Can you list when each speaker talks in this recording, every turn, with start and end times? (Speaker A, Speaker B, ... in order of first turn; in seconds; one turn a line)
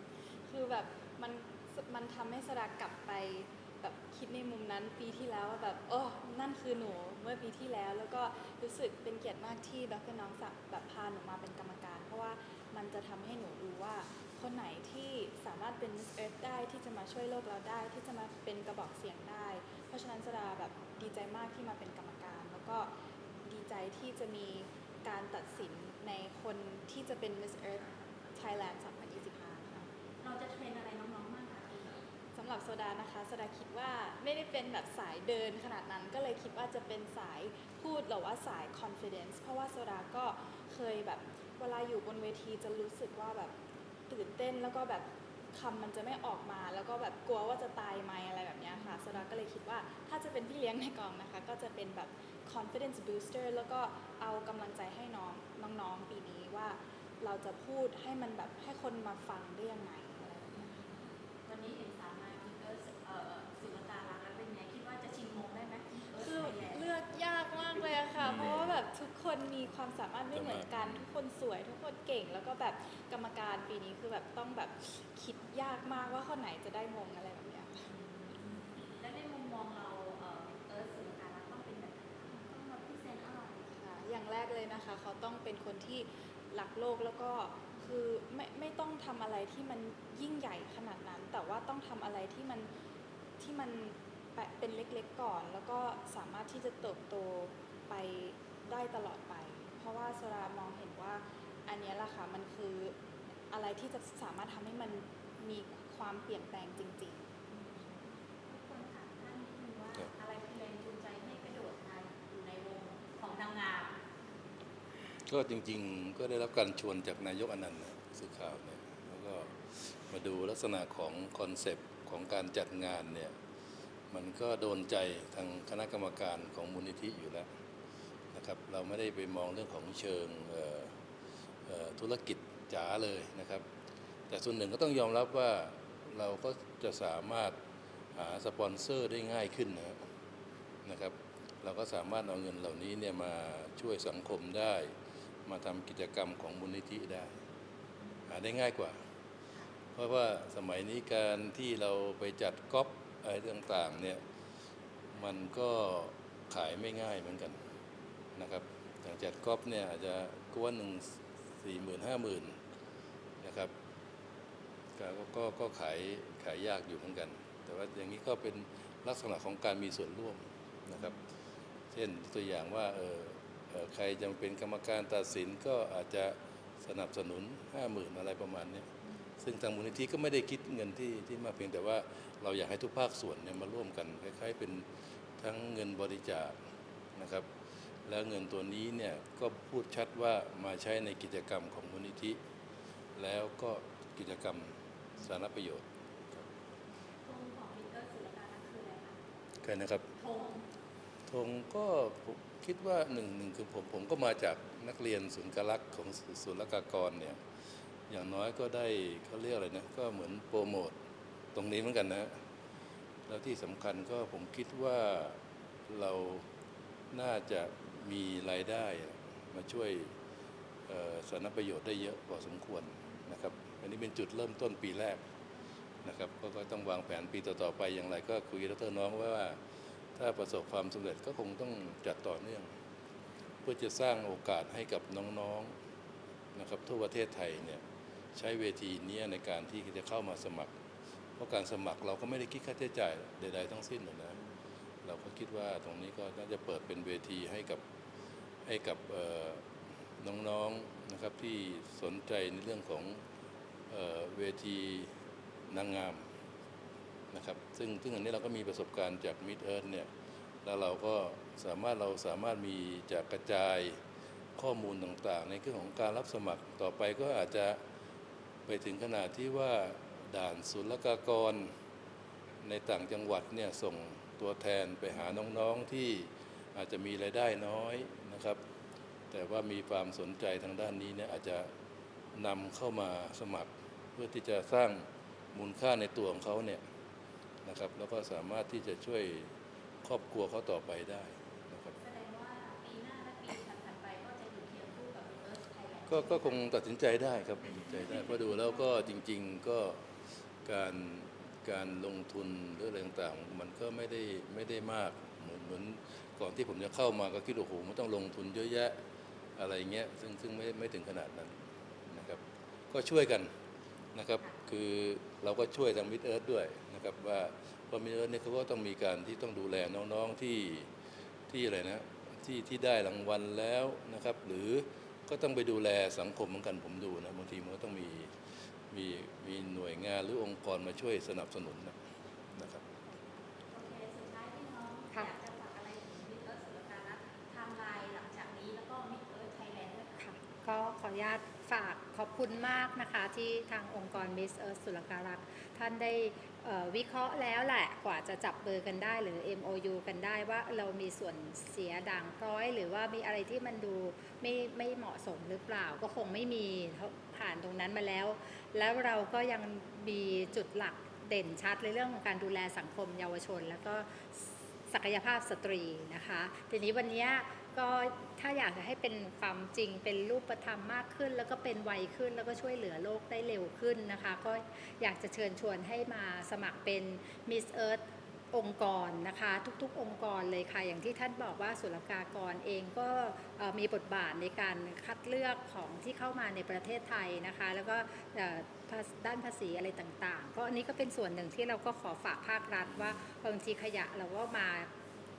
Speaker A: 0.5-22.9
Speaker A: 23.4-29.9
Speaker B: 30.2-32.0
Speaker A: 32.4-43.5
Speaker A: 44.1-60.8
Speaker B: 61.5-66.9
Speaker A: 66.2-77.9
Speaker C: 68.2-68.8
Speaker C: 70.3-71.0
Speaker B: 77.9-83.7
Speaker A: 83.7-92.7
Speaker A: 93.4-103.0
Speaker A: 103.5-107.2
Speaker B: 107.5-107.9
Speaker B: 108.5-113.9
Speaker C: 115.3-123.3
Speaker C: 124.1-127.5
Speaker C: 128.3-130.9
Speaker C: 131.7-133.6
Speaker C: 134.3-137.6
Speaker C: 138.2-140.0
Speaker C: 140.8-144.9
Speaker C: 145.5-147.3
Speaker B: 148.0-148.3
Speaker C: 148.3-149.0
Speaker C: 149.9-154.2
Speaker C: 155.1-157.6
Speaker C: 158.4-162.5
Speaker C: 163.4-163.7
Speaker C: 165.0-171.2
Speaker C: 171.9-178.9
Speaker C: 179.4-184.9
Speaker C: 185.4-186.5
Speaker C: 187.2-187.5
Speaker C: 188.1-192.4
Speaker C: 193.2-196.5
Speaker B: 197.2-199.2
Speaker C: 199.6-200.1
Speaker B: 200.2-200.7
Speaker C: 201.3-207.4
Speaker C: 208.1-210.9
Speaker C: 211.5-212.3
Speaker C: 213.3-215.4
Speaker C: 215.9-216.4
Speaker C: 217.1-220.1
Speaker C: 220.9-225.2
Speaker C: 226.0-229.6
Speaker C: 230.2-232.7
Speaker C: 233.6-235.7
Speaker C: 236.6-237.8
Speaker C: 238.3-240.7
Speaker C: 241.4-244.4
Speaker C: 245.0-247.8
Speaker C: 248.7-249.6
Speaker C: 250.2-253.2
Speaker C: 253.9-255.1
Speaker C: 255.7-256.2
Speaker C: 257.3-260.1
Speaker C: 260.6-264.0
Speaker C: 264.6-267.8
Speaker C: 268.7-271.7
Speaker C: 272.6-278.6
Speaker C: 279.3-281.7
Speaker C: 282.4-286.8
Speaker C: 287.6-289.5
Speaker C: 290.0-292.0
Speaker B: 292.0-296.6
Speaker C: 296.1-300.0
Speaker B: 297.9-298.6
Speaker C: 300.6-309.0
Speaker C: 309.6-313.5
Speaker C: 314.1-320.9
Speaker C: 321.5-328.3
Speaker C: 328.9-332.0
Speaker C: 332.5-332.8
Speaker B: 333.7-340.2
Speaker D: 340.2-394.9
Speaker C: 392.9-393.2